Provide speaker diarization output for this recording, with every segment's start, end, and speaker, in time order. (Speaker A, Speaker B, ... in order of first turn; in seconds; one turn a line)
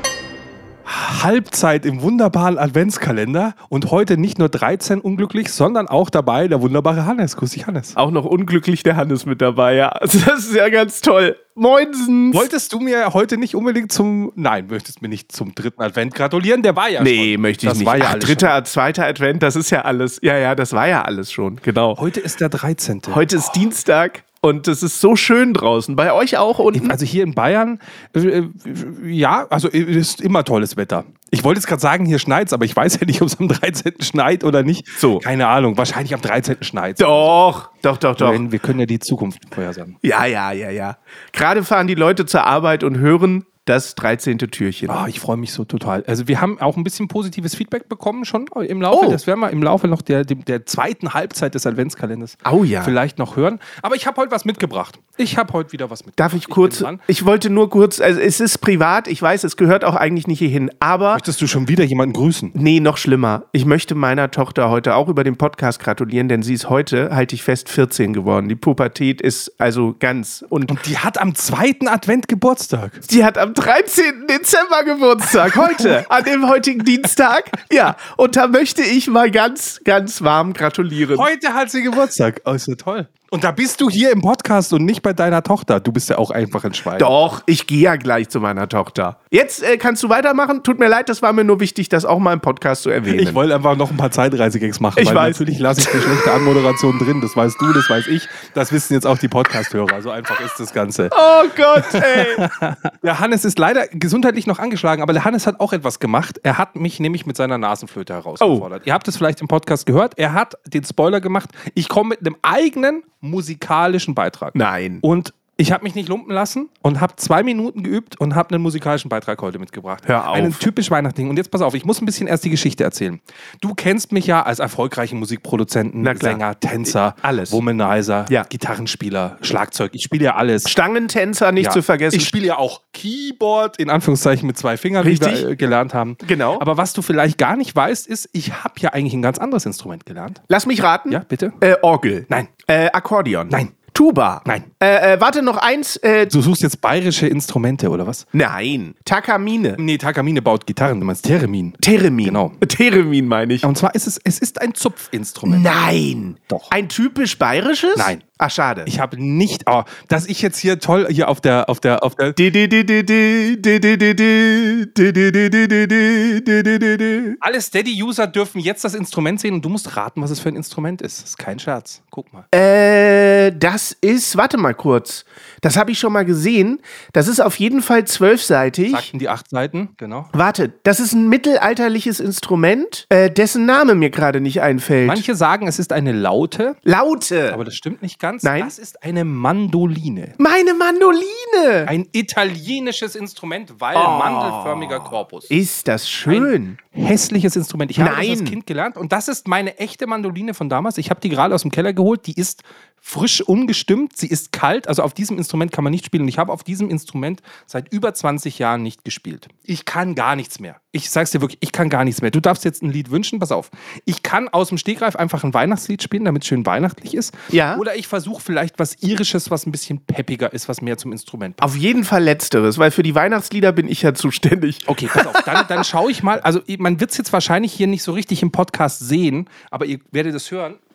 Speaker A: 0.8-8.0
Speaker B: 8.0-12.5
Speaker A: 12.3-18.5
Speaker B: 17.0-22.0
Speaker A: 21.9-23.7
Speaker B: 23.1-27.0
Speaker A: 26.7-37.4
Speaker B: 35.0-35.2
Speaker B: 37.0-38.4
Speaker A: 38.2-40.0
Speaker B: 40.0-45.0
Speaker A: 44.9-57.0
Speaker B: 48.9-49.2
Speaker B: 52.4-53.0
Speaker B: 56.2-61.2
Speaker A: 61.1-62.5
Speaker B: 62.5-70.8
Speaker A: 70.7-73.0
Speaker B: 73.1-81.3
Speaker A: 75.4-76.0
Speaker A: 81.1-87.1
Speaker B: 86.9-93.4
Speaker A: 93.1-130.7
Speaker B: 95.0-96.3
Speaker B: 101.1-102.4
Speaker B: 108.4-108.7
Speaker B: 114.5-115.0
Speaker B: 120.0-120.6
Speaker B: 126.0-127.6
Speaker B: 130.6-132.3
Speaker A: 131.6-140.4
Speaker B: 135.0-135.4
Speaker B: 136.2-136.7
Speaker B: 140.5-146.3
Speaker A: 141.1-141.6
Speaker A: 143.5-143.7
Speaker A: 144.4-144.7
Speaker A: 146.3-148.2
Speaker B: 148.3-149.8
Speaker A: 149.8-152.6
Speaker B: 151.8-153.7
Speaker A: 153.6-155.8
Speaker B: 155.4-158.9
Speaker A: 157.9-158.2
Speaker A: 158.8-162.4
Speaker B: 162.3-167.4
Speaker A: 167.4-172.4
Speaker B: 172.5-179.1
Speaker A: 178.9-180.3
Speaker B: 180.3-185.2
Speaker A: 185.0-186.8
Speaker B: 186.8-187.6
Speaker A: 187.5-190.3
Speaker B: 188.4-188.7
Speaker B: 190.4-191.9
Speaker A: 191.9-195.5
Speaker B: 193.9-196.8
Speaker A: 196.3-221.8
Speaker B: 198.0-198.6
Speaker B: 217.5-217.8
Speaker B: 221.6-225.8
Speaker A: 224.8-230.8